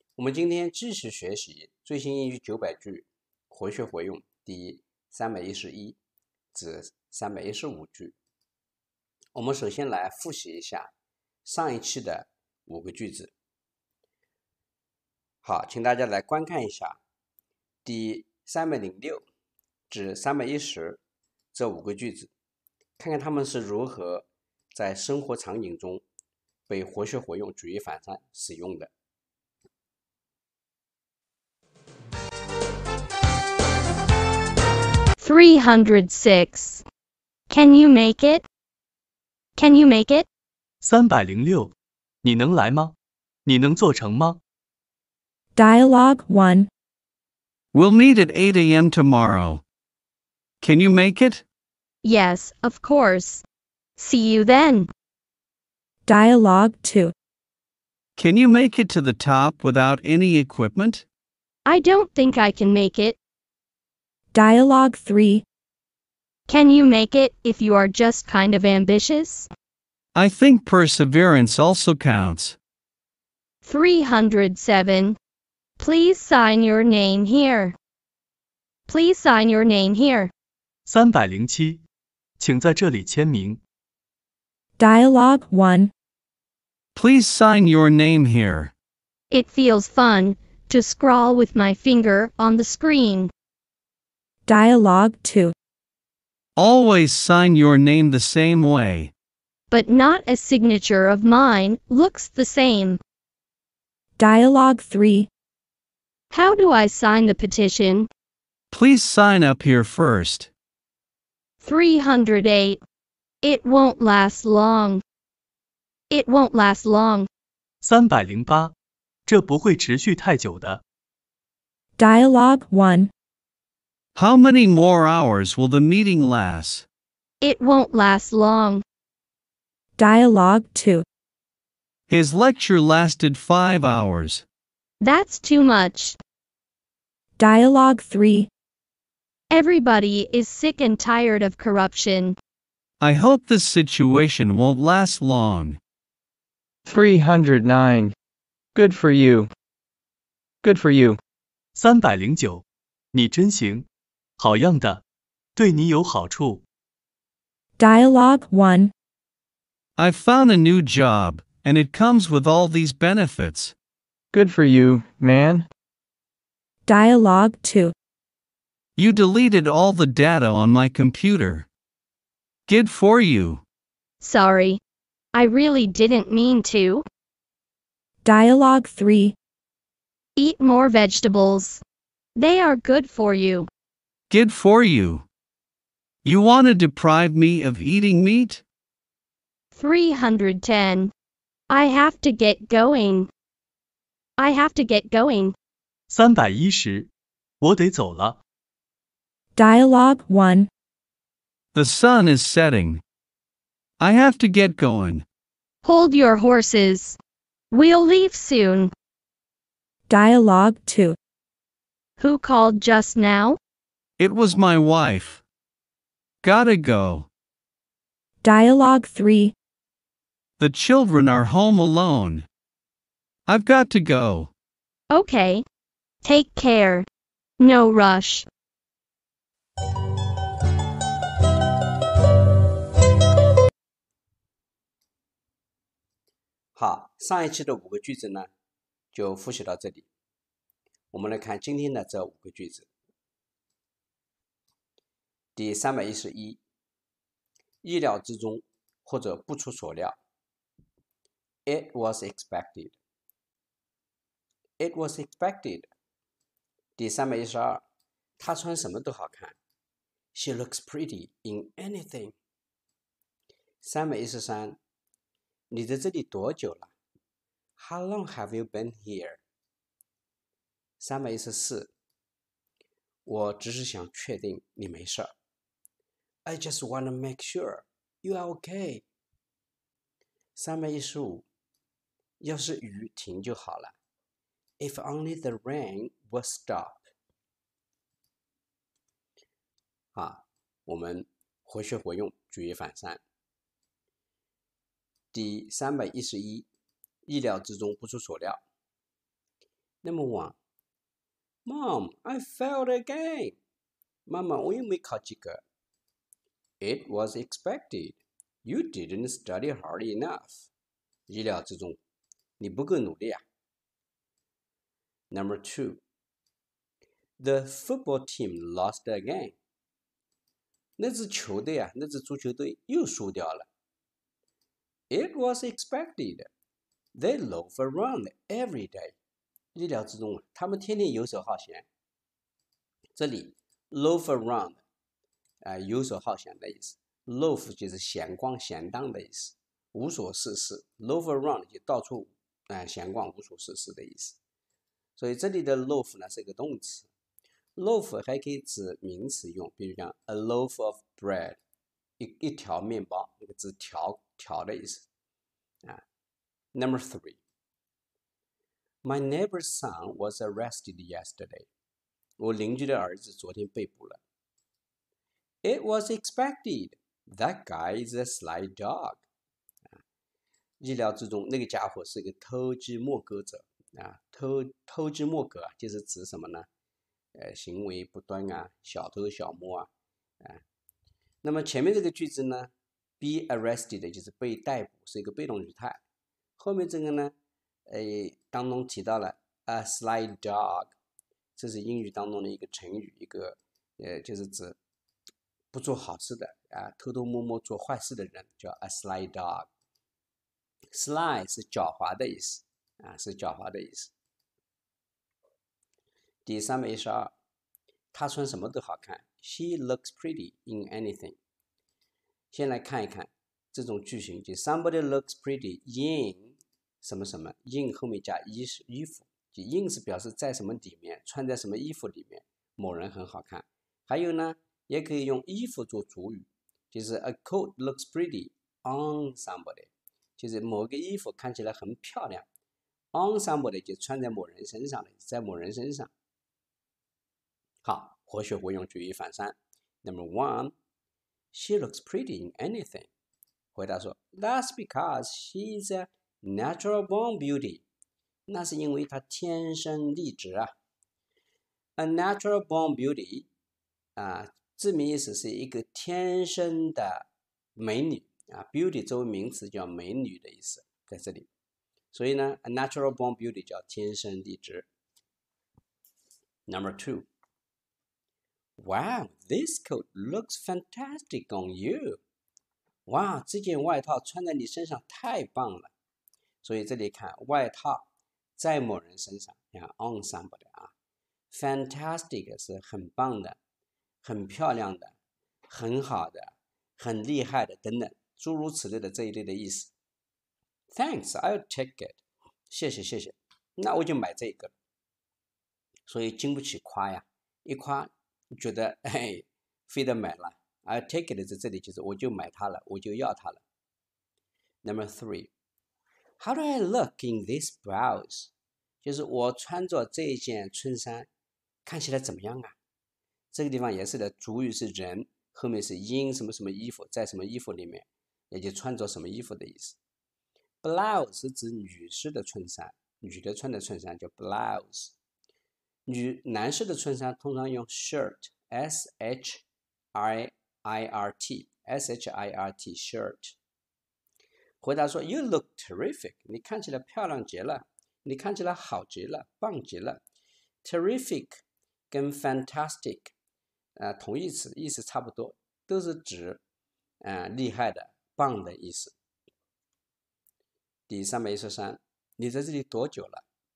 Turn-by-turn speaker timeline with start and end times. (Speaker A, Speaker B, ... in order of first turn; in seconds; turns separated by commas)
Speaker A: 0.2-6.0, Speaker A: 6.5-8.1, Speaker A: 9.3-10.9, Speaker A: 11.4-13.3, Speaker A: 15.4-17.0, Speaker A: 17.8-19.2, Speaker A: 19.9-21.0, Speaker A: 21.5-22.3, Speaker A: 23.0-26.0, Speaker A: 26.7-28.9, Speaker B: 35.2-36.8, Speaker B: 37.5-38.4, Speaker B: 39.6-40.2, Speaker C: 40.8-41.7, Speaker C: 42.2-42.9, Speaker C: 43.5-44.4, Speaker D: 45.5-46.7, Speaker E: 47.7-49.6, Speaker E: 50.6-51.4, Speaker B: 52.0-53.4, Speaker B: 54.0-54.9, Speaker D: 56.1-57.1, Speaker E: 58.2-61.0, Speaker B: 61.6-63.2, Speaker D: 64.3-65.4, Speaker B: 66.5-69.5, Speaker E: 70.1-72.6, Speaker B: 73.6-75.2, Speaker B: 75.8-77.8, Speaker B: 78.9-80.3, Speaker C: 80.9-81.8, Speaker C: 82.4-83.6, Speaker D: 84.8-85.9, Speaker E: 86.9-88.7, Speaker B: 89.3-93.3, Speaker D: 94.5-95.5, Speaker E: 96.5-99.1, Speaker B: 99.7-103.0, Speaker D: 104.2-105.3, Speaker B: 106.3-108.1, Speaker E: 108.7-110.5, Speaker B: 111.6-112.8, Speaker B: 113.4-115.0, Speaker B: 116.1-117.3, Speaker C: 117.8-118.7, Speaker C: 119.3-120.8, Speaker D: 122.0-123.1, Speaker E: 124.1-126.8, Speaker B: 127.4-128.8, Speaker D: 130.0-131.0, Speaker E: 132.1-134.4, Speaker B: 135.0-136.2, Speaker D: 137.4-138.5, Speaker B: 139.5-142.3, Speaker E: 143.0-145.8, Speaker F: 146.8-148.1, Speaker F: 148.7-149.5, Speaker F: 150.6-151.2, Speaker C: 151.8-152.6, Speaker C: 153.1-153.8, Speaker C: 154.4-155.0, Speaker C: 155.6-156.6, Speaker D: 157.8-158.9, Speaker E: 160.0-163.7, Speaker F: 164.3-165.7, Speaker D: 166.9-167.9, Speaker E: 169.0-171.7, Speaker E: 172.7-173.6, Speaker B: 174.2-174.8, Speaker B: 175.3-177.0, Speaker D: 178.2-179.3, Speaker B: 180.4-181.8, Speaker B: 182.3-183.7, Speaker E: 184.3-185.2, Speaker E: 186.2-188.6, Speaker B: 189.8-191.1, Speaker B: 191.7-193.3, Speaker B: 194.4-195.5, Speaker C: 196.1-197.1, Speaker C: 197.6-198.4, Speaker D: 199.6-200.7, Speaker E: 201.7-203.0, Speaker E: 204.0-205.2, Speaker B: 205.8-207.2, Speaker B: 207.7-208.9, Speaker D: 210.1-211.2, Speaker B: 212.2-213.6, Speaker E: 214.2-215.4, Speaker E: 216.4-217.3, Speaker D: 218.4-219.5, Speaker E: 220.6-222.5, Speaker E: 223.4-224.5, Speaker B: 225.1-225.6, Speaker B: 226.2-227.1, Speaker B: 227.6-228.4, Speaker A: 236.7-238.5, Speaker A: 239.1-240.1, Speaker A: 241.1-242.9, Speaker A: 245.6-246.6, Speaker A: 247.8-250.2, Speaker A: 251.7-252.9, Speaker A: 254.8-255.9, Speaker A: 257.0-257.8, Speaker A: 258.4-259.6, Speaker A: 260.3-262.4, Speaker A: 263.8-264.8, Speaker A: 265.7-266.9, Speaker A: 267.8-269.4, Speaker A: 271.0-271.9, Speaker A: 273.2-275.3, Speaker A: 276.4-279.0, Speaker A: 280.6-281.4, Speaker A: 282.4-283.9, Speaker A: 284.8-287.1, Speaker A: 290.1-293.2, Speaker A: 295.3-296.6, Speaker A: 297.2-298.6, Speaker A: 300.0-300.6, Speaker A: 301.6-303.6, Speaker A: 304.3-305.6, Speaker A: 306.8-310.7, Speaker A: 311.3-312.0, Speaker A: 312.6-313.4, Speaker A: 315.3-316.0, Speaker A: 317.4-319.6, Speaker A: 321.0-323.7, Speaker A: 325.1-326.5, Speaker A: 327.1-329.1, Speaker A: 329.7-331.9, Speaker A: 333.1-334.8, Speaker A: 335.6-344.4, Speaker A: 345.1-347.1, Speaker A: 347.8-351.6, Speaker A: 352.2-355.1, Speaker A: 356.7-357.4, Speaker A: 359.0-361.7, Speaker A: 362.4-364.2, Speaker A: 365.6-369.2, Speaker A: 370.8-376.7, Speaker A: 377.3-379.9, Speaker A: 381.4-386.0, Speaker A: 386.6-387.3, Speaker A: 387.9-390.9, Speaker A: 391.6-394.8, Speaker A: 395.7-399.7, Speaker A: 400.9-404.1, Speaker A: 406.4-407.3, Speaker A: 408.1-411.4, Speaker A: 412.5-432.4, Speaker A: 433.1-436.1, Speaker A: 437.8-440.7, Speaker A: 441.5-443.1, Speaker A: 443.7-447.8, Speaker A: 448.5-450.7, Speaker A: 452.0-453.5, Speaker A: 454.2-457.2, Speaker A: 457.8-461.5, Speaker A: 462.1-464.9, Speaker A: 466.7-467.3, Speaker A: 468.8-472.2, Speaker A: 473.1-475.9, Speaker A: 476.6-478.1, Speaker A: 478.6-480.9, Speaker A: 481.5-483.6, Speaker A: 484.2-485.1, Speaker A: 485.7-489.9, Speaker A: 490.9-494.7, Speaker A: 496.1-503.6, Speaker A: 504.8-505.5, Speaker A: 506.4-508.5, Speaker A: 509.0-511.3, Speaker A: 511.9-512.8, Speaker A: 513.5-520.0, Speaker A: 520.8-525.1, Speaker A: 526.0-529.6, Speaker A: 530.1-533.5, Speaker A: 534.8-540.2, Speaker A: 540.8-543.3, Speaker A: 544.0-546.6, Speaker A: 547.2-549.1, Speaker A: 551.1-553.4